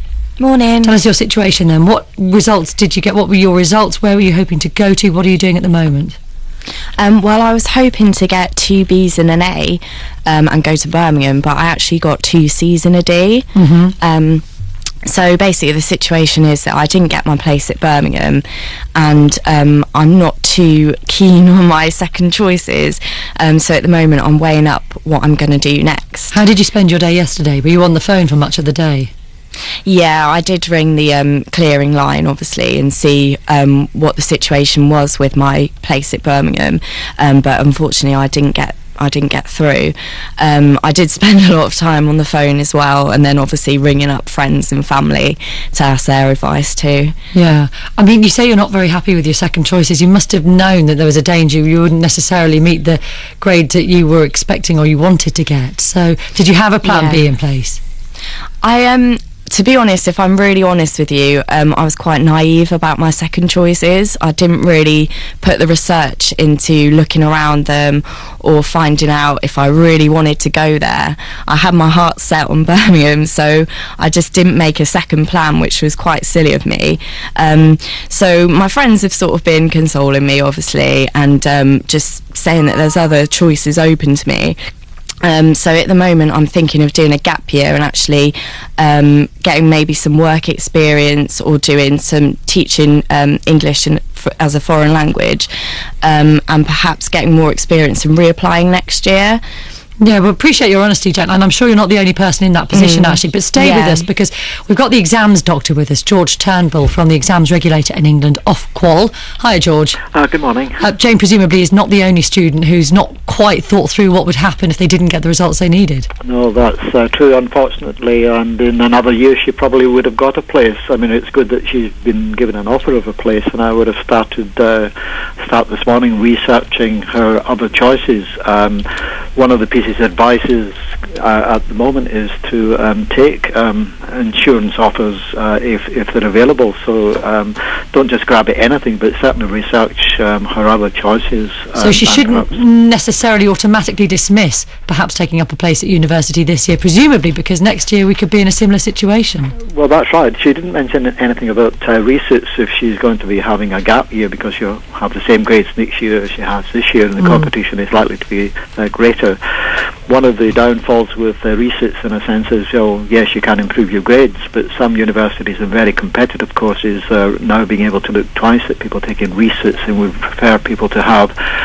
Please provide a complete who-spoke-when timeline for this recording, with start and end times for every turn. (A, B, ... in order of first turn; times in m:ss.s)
0:00.4-0:00.9 A
0:00.8-0:06.2 B
0:07.0-0:14.4 A
0:13.6-0:13.9 B
0:15.0-0:18.4 A
0:18.9-0:26.3 A
0:26.3-0:29.1 B
0:29.8-0:47.1 A
0:47.3-0:57.8 B
0:56.8-0:57.2 A
0:58.6-1:24.6 A
1:25.2-1:35.5 A
1:36.0-1:39.4 A
1:40.0-1:50.0 B
1:42.7-1:44.0 A
1:50.1-1:50.8 C
1:50.8-1:56.1 B
1:56.2-2:22.5 C
2:21.8-2:29.5 B
2:29.7-2:39.4 C
2:40.1-2:51.3 C